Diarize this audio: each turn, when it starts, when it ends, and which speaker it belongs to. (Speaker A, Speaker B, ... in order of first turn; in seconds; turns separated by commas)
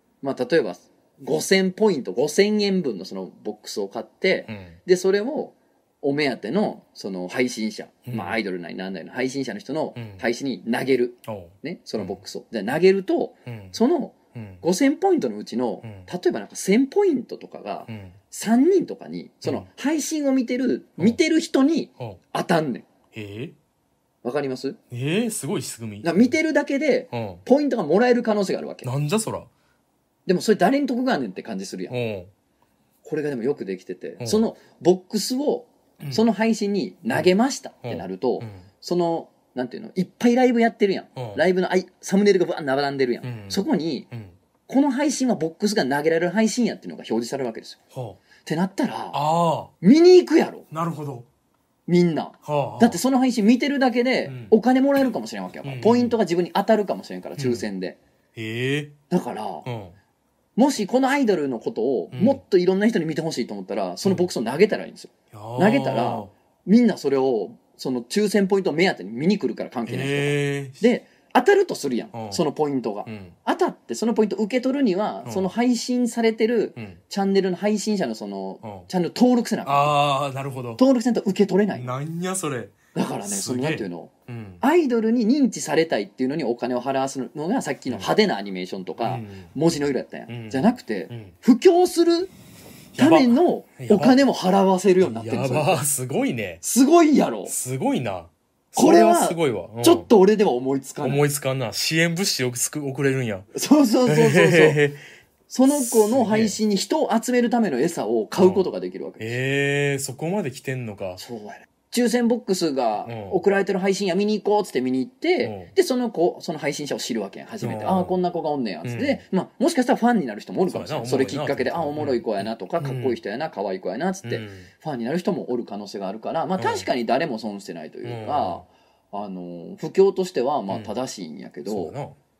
Speaker A: 0.2-22.9, Speaker B: 4.5-4.8, Speaker B: 8.1-8.4, Speaker B: 9.9-10.2, Speaker B: 11.2-12.2, Speaker B: 13.4-13.8, Speaker B: 14.3-14.6, Speaker B: 15.8-16.1, Speaker B: 17.9-18.1, Speaker B: 19.4-19.7, Speaker B: 23.1-23.5, Speaker A: 24.2-24.8, Speaker B: 24.9-26.4, Speaker A: 26.0-28.9, Speaker B: 27.1-27.4, Speaker B: 28.8-29.5, Speaker A: 30.2-31.9, Speaker B: 31.9-32.3, Speaker A: 33.0-44.1, Speaker B: 34.2-34.5, Speaker B: 36.0-36.3, Speaker B: 37.8-38.6, Speaker B: 41.1-41.4, Speaker B: 43.2-44.3, Speaker A: 44.7-47.8, Speaker B: 47.9-48.2, Speaker A: 48.4-49.2, Speaker B: 49.1-49.7, Speaker A: 49.8-50.7, Speaker B: 50.7-51.2, Speaker A: 51.9-58.0, Speaker B: 52.4-53.0, Speaker B: 54.2-54.5, Speaker B: 55.6-56.2, Speaker B: 57.4-57.6, Speaker B: 58.3-58.9, Speaker A: 59.1-59.7, Speaker B: 59.6-60.0, Speaker A: 60.6-79.9, Speaker B: 62.1-62.4, Speaker B: 64.0-64.3, Speaker B: 65.3-66.3, Speaker B: 69.8-70.8, Speaker B: 72.1-72.4, Speaker B: 73.0-73.4, Speaker B: 75.2-75.5, Speaker B: 78.6-78.9, Speaker B: 79.6-80.8, Speaker A: 80.8-81.9, Speaker B: 81.7-84.6, Speaker A: 82.9-84.1, Speaker A: 84.6-92.3, Speaker B: 89.0-89.5, Speaker B: 90.3-91.3, Speaker B: 92.9-94.2, Speaker A: 93.0-95.8, Speaker B: 95.0-96.6, Speaker A: 96.6-97.5, Speaker B: 97.5-100.1, Speaker A: 98.8-101.2, Speaker B: 101.0-103.5, Speaker A: 103.5-104.8, Speaker B: 104.0-105.0, Speaker A: 105.5-109.3, Speaker B: 105.7-106.6, Speaker B: 108.4-108.7, Speaker B: 109.2-111.2, Speaker A: 111.2-131.9, Speaker B: 113.0-113.4, Speaker B: 115.4-115.7, Speaker B: 117.6-118.2, Speaker B: 118.8-119.2, Speaker B: 120.7-123.2, Speaker B: 124.2-124.7, Speaker B: 126.6-126.9, Speaker B: 128.0-128.6, Speaker B: 130.7-130.9, Speaker B: 131.7-132.2